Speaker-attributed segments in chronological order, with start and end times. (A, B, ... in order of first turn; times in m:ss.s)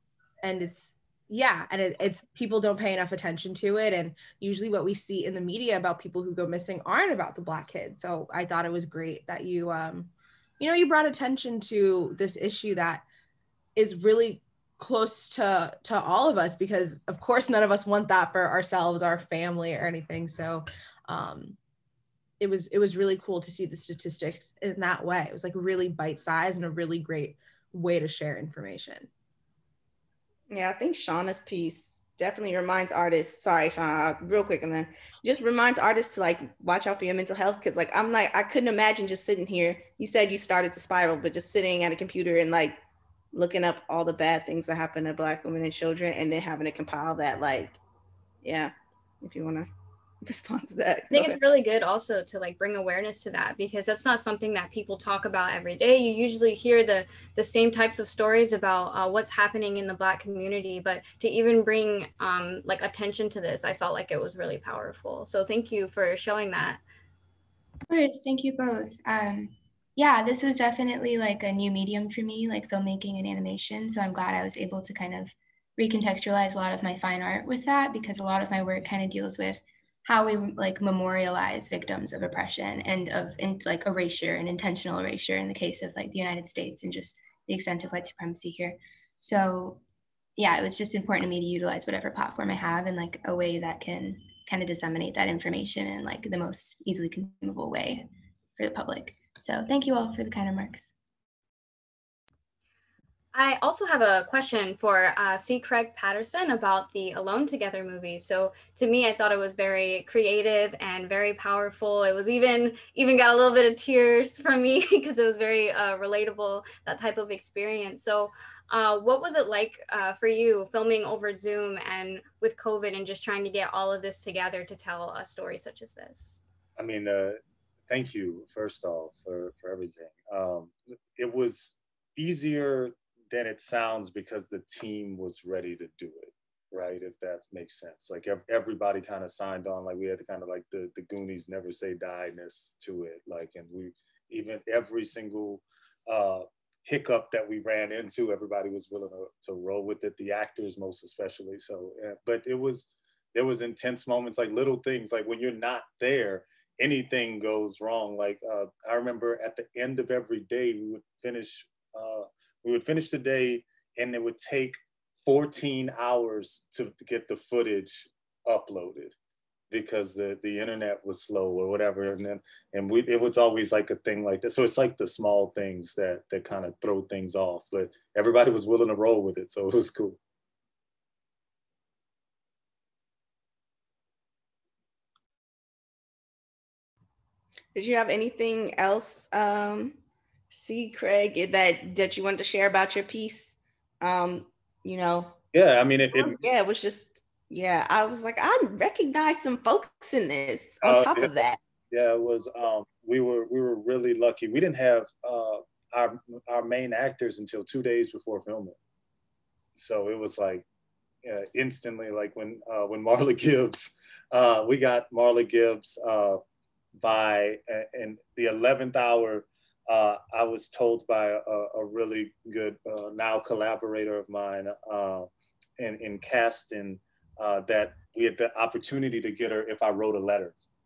0:00.4-0:13.0 A
0:13.8-0:21.6 A
0:22.4-0:29.1 A
0:30.5-0:42.8 B
0:43.3-0:47.8 B
0:48.4-0:49.7 B
0:50.2-0:51.4 B
0:51.1-1:06.8 C
1:07.9-1:29.8 D
1:30.4-1:38.1 D
1:38.6-1:40.9 D
1:43.3-2:06.4 C
2:06.8-2:49.2 E
2:49.7-3:00.2 E
3:07.8-3:10.0 B
3:10.5-3:15.4 B
3:15.5-3:16.4 E
3:16.1-3:21.6 B
3:20.8-3:21.3 E
3:21.9-3:28.8 E
3:29.8-3:30.6 E
3:31.2-3:36.4 E
3:37.0-3:50.6 E